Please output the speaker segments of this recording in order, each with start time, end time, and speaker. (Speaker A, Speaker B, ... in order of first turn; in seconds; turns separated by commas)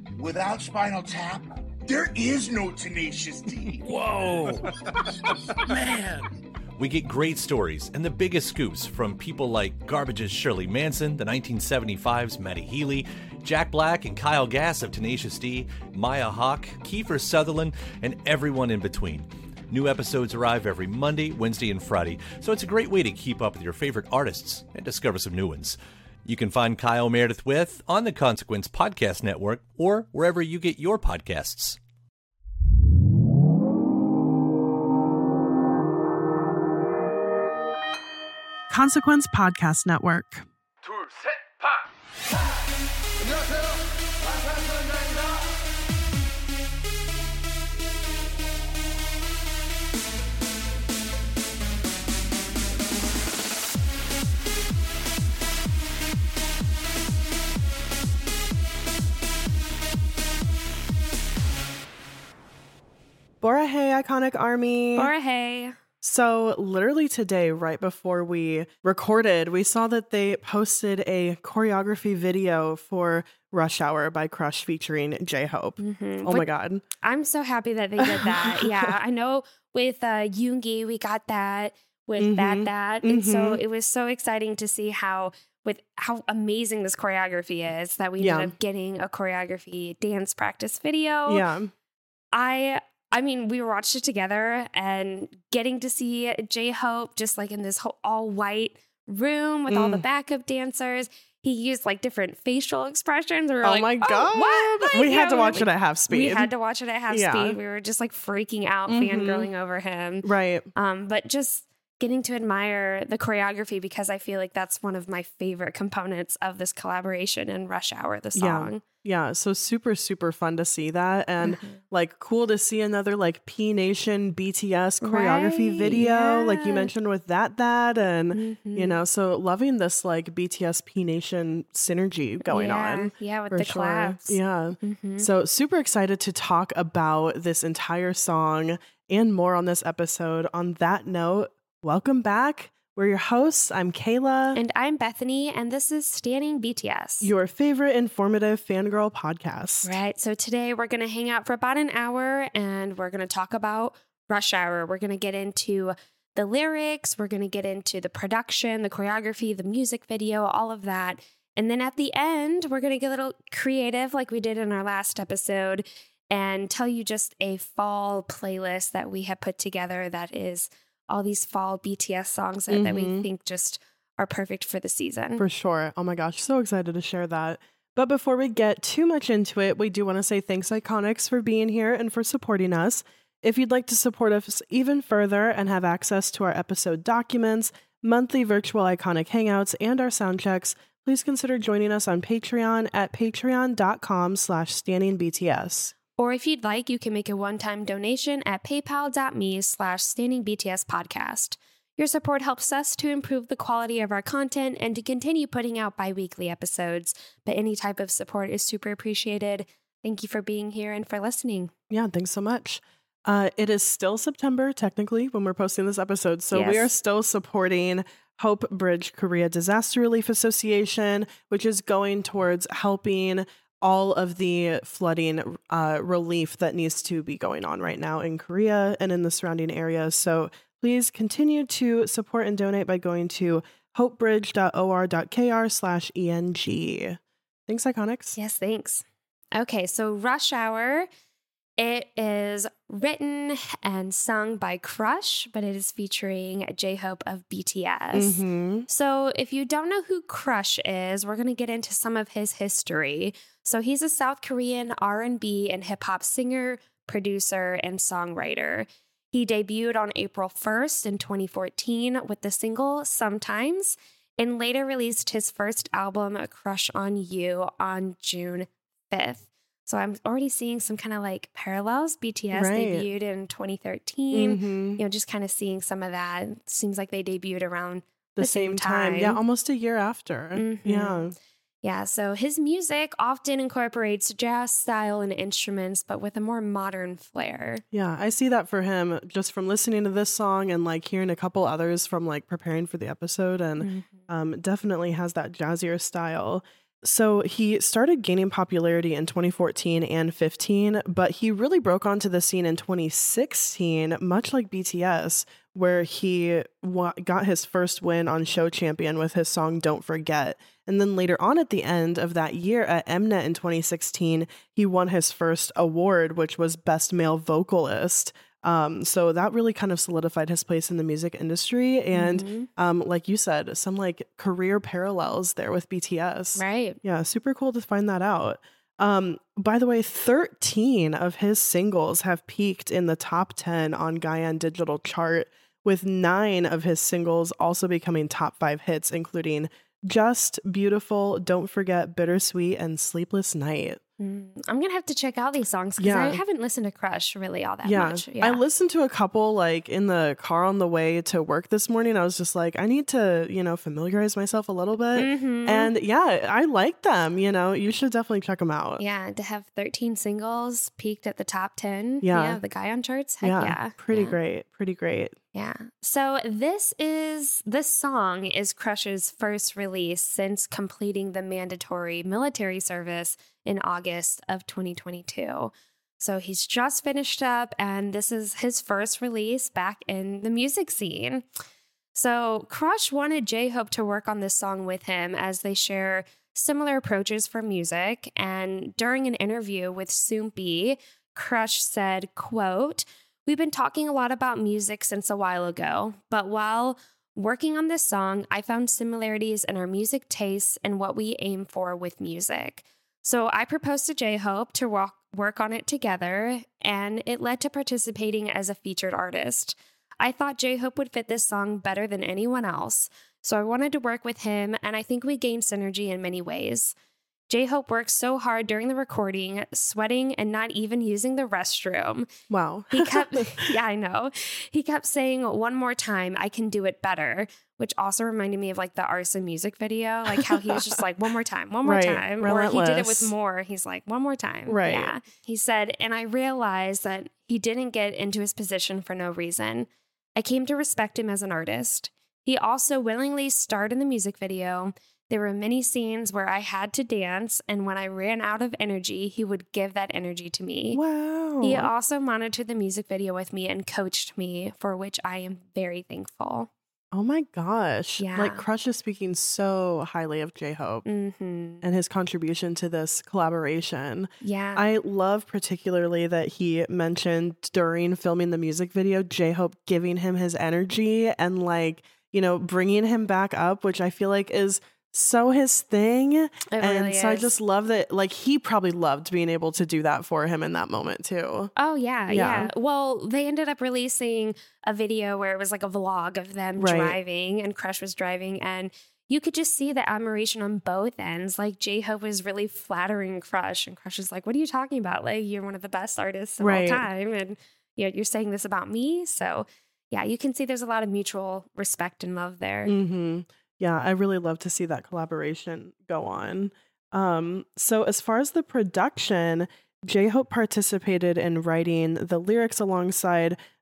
Speaker A: 0.1-4.7, Speaker A: 5.6-6.3, Speaker B: 6.8-31.8, Speaker C: 38.7-40.5, Speaker C: 63.4-65.1, Speaker D: 65.0-65.8, Speaker C: 66.0-76.8, Speaker D: 75.8-76.5, Speaker D: 77.0-91.4, Speaker C: 78.0-78.9, Speaker C: 82.2-83.6, Speaker C: 88.2-88.5, Speaker C: 91.3-91.7, Speaker D: 92.3-118.8, Speaker C: 99.7-100.0, Speaker C: 103.6-106.5, Speaker C: 107.1-107.6, Speaker C: 108.9-109.5, Speaker C: 110.2-110.7, Speaker C: 118.3-144.6, Speaker D: 121.4-121.8, Speaker D: 125.0-126.9, Speaker D: 128.3-128.9, Speaker D: 132.5-135.3, Speaker D: 144.5-147.3, Speaker C: 147.2-149.9, Speaker D: 149.8-175.4, Speaker C: 172.7-173.2, Speaker C: 175.4-195.9, Speaker D: 196.2-211.7, Speaker C: 211.9-238.3, Speaker D: 216.5-216.9, Speaker D: 238.3-241.1, Speaker D: 241.8-279.4, Speaker C: 248.1-248.9, Speaker C: 272.5-273.0, Speaker C: 274.3-275.0, Speaker C: 278.4-281.3, Speaker D: 280.5-281.2, Speaker D: 281.8-287.8, Speaker C: 287.9-344.0, Speaker D: 293.8-294.2, Speaker D: 322.1-322.7, Speaker D: 326.6-327.0, Speaker D: 344.2-348.6, Speaker C: 346.0-346.4, Speaker C: 347.8-359.0, Speaker D: 355.1-355.9, Speaker D: 359.0-364.4, Speaker C: 362.2-362.6, Speaker C: 363.4-365.4, Speaker D: 365.5-381.4, Speaker D: 382.1-416.9, Speaker D: 417.5-422.3, Speaker C: 422.5-423.6, Speaker D: 422.9-451.0, Speaker C: 430.3-430.8, Speaker C: 431.8-433.3, Speaker C: 434.7-435.1, Speaker C: 450.9-451.9, Speaker D: 451.6-456.7, Speaker C: 457.1-461.0, Speaker D: 458.2-458.6, Speaker D: 461.0-461.8, Speaker C: 461.8-481.7, Speaker D: 464.4-464.8, Speaker D: 476.7-477.5, Speaker D: 481.8-502.9, Speaker C: 482.3-482.7, Speaker C: 486.8-487.2, Speaker C: 496.6-497.1, Speaker C: 502.9-513.6